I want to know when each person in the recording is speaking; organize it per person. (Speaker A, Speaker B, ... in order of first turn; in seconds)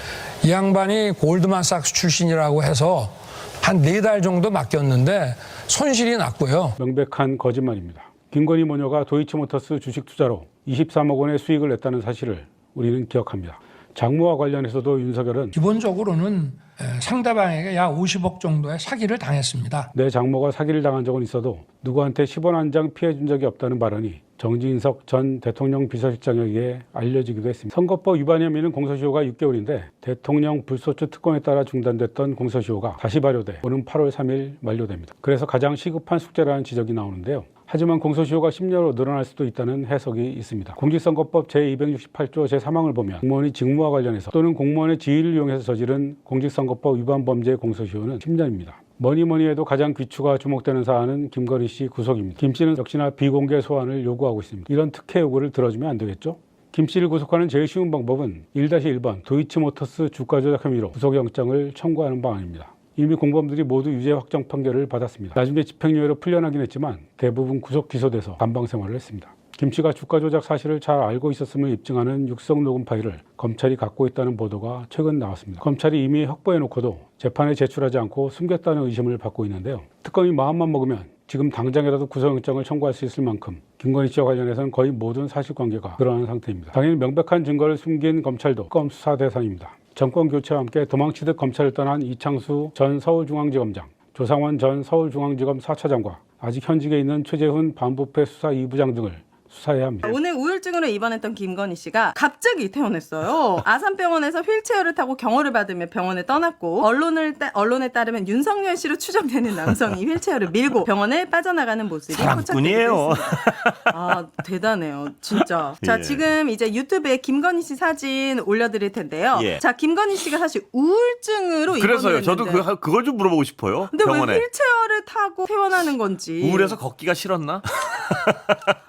Speaker A: 0.4-6.7, 15.5-19.9
Speaker B: 6.8-15.6, 19.9-100.1
Speaker C: 100.0-122.7, 123.9-126.8
Speaker D: 112.1-114.1, 115.8-116.2, 121.8-124.4, 126.4-128.7